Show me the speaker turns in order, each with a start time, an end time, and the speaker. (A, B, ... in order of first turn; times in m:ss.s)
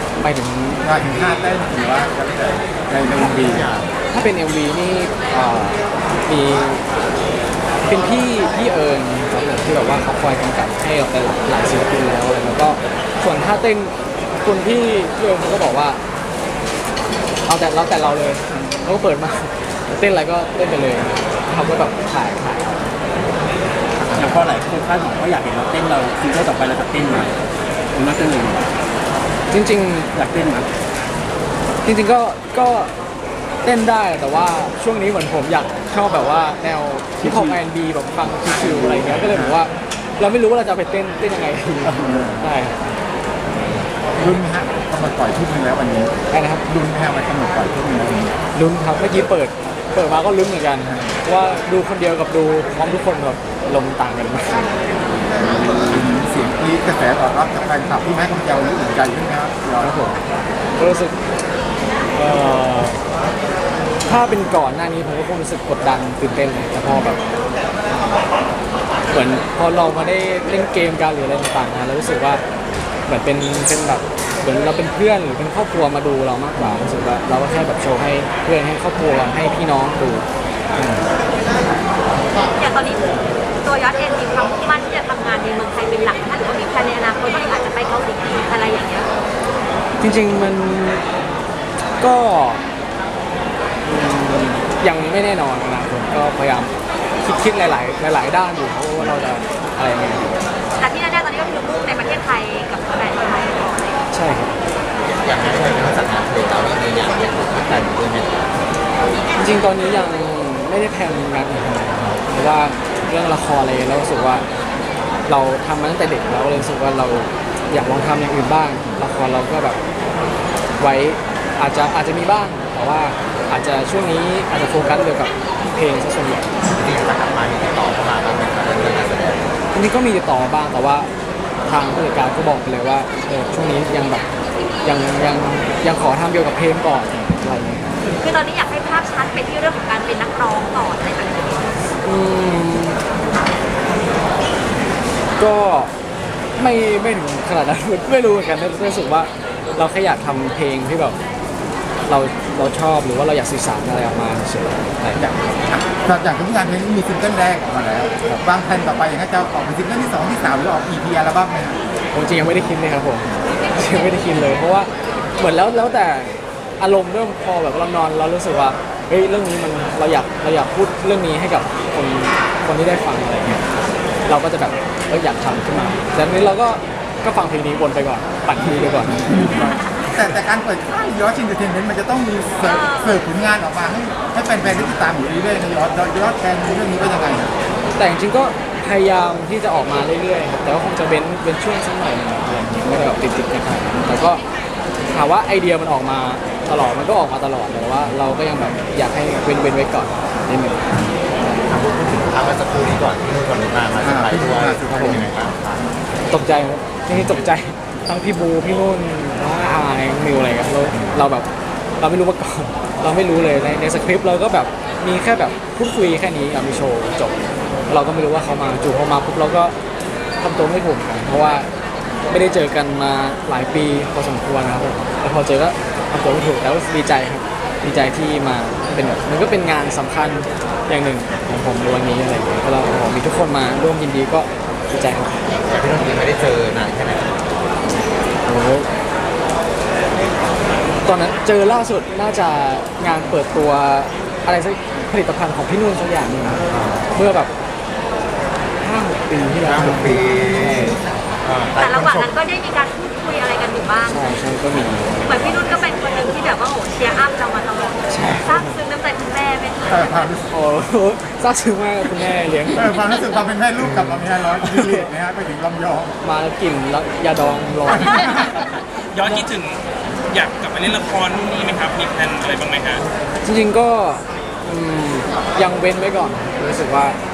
0:00.2-0:00.8 A
0:00.8-0:03.7 B
0:03.2-0:03.9 C
0:04.1-0:06.8 A
0:07.8-0:16.0 A
0:17.5-0:22.9 A
0:24.0-0:24.3 B
0:24.2-0:27.3 D
0:27.9-0:28.8 D
0:29.5-0:30.1 A
0:30.1-0:30.7 D
0:31.8-0:32.9 A
0:33.6-0:42.8 A
0:37.2-0:37.6 D
0:38.9-0:39.6 B
0:41.9-0:42.3 D
0:42.0-0:42.4 B
0:44.2-0:46.1 B
0:46.3-0:46.6 A
0:46.7-0:48.4 B
0:48.5-0:54.7 A
0:50.8-0:51.2 B
0:55.4-0:59.9 B
0:59.8-1:00.2 A
1:00.8-1:01.1 A
1:02.1-1:03.0 A
1:04.0-1:07.2 A
1:09.1-1:12.4 A
1:13.1-1:20.3 A
1:22.5-1:23.1 E
1:23.6-1:29.1 E
1:30.0-1:31.0 A
1:32.0-1:32.6 A
1:33.8-1:40.4 A
1:40.8-1:44.0 E
1:44.1-1:44.5 A
1:45.0-1:48.5 C
1:49.4-1:54.4 A
1:55.3-1:59.8 A
2:00.8-2:06.5 A
2:06.7-2:09.5 C
2:09.7-2:11.1 A
2:11.7-2:14.2 A
2:14.8-2:17.9 A
2:18.1-2:21.7 E
2:22.0-2:23.0 A
2:25.4-2:25.9 A
2:26.6-2:31.2 A
2:32.1-2:35.2 A
2:35.2-2:41.8 B
2:42.1-2:53.6 A
2:54.3-2:59.2 A
2:59.2-3:07.5 B
3:02.6-3:03.2 E
3:08.0-3:14.4 A
3:15.1-3:20.8 A
3:21.7-3:25.9 C
3:24.0-3:25.2 B
3:24.9-3:25.2 A
3:26.3-3:31.5 A
3:32.0-3:37.4 A
3:37.9-3:39.8 A
3:40.4-3:41.7 A
3:42.3-3:55.3 A
3:55.7-3:57.4 C
3:58.5-3:58.9 A
4:01.0-4:07.5 A
4:06.6-4:07.1 C
4:08.8-4:11.0 A
4:09.6-4:12.3 C
4:11.8-4:14.4 E
4:14.0-4:15.8 A
4:15.2-4:20.3 E
4:18.1-4:18.8 A
4:19.9-4:20.5 B
4:20.5-4:22.9 A
4:22.8-4:26.2 B
4:23.8-4:25.0 A
4:26.2-4:28.4 A
4:27.9-4:28.4 B
4:28.2-4:33.0 F
4:33.4-4:37.2 A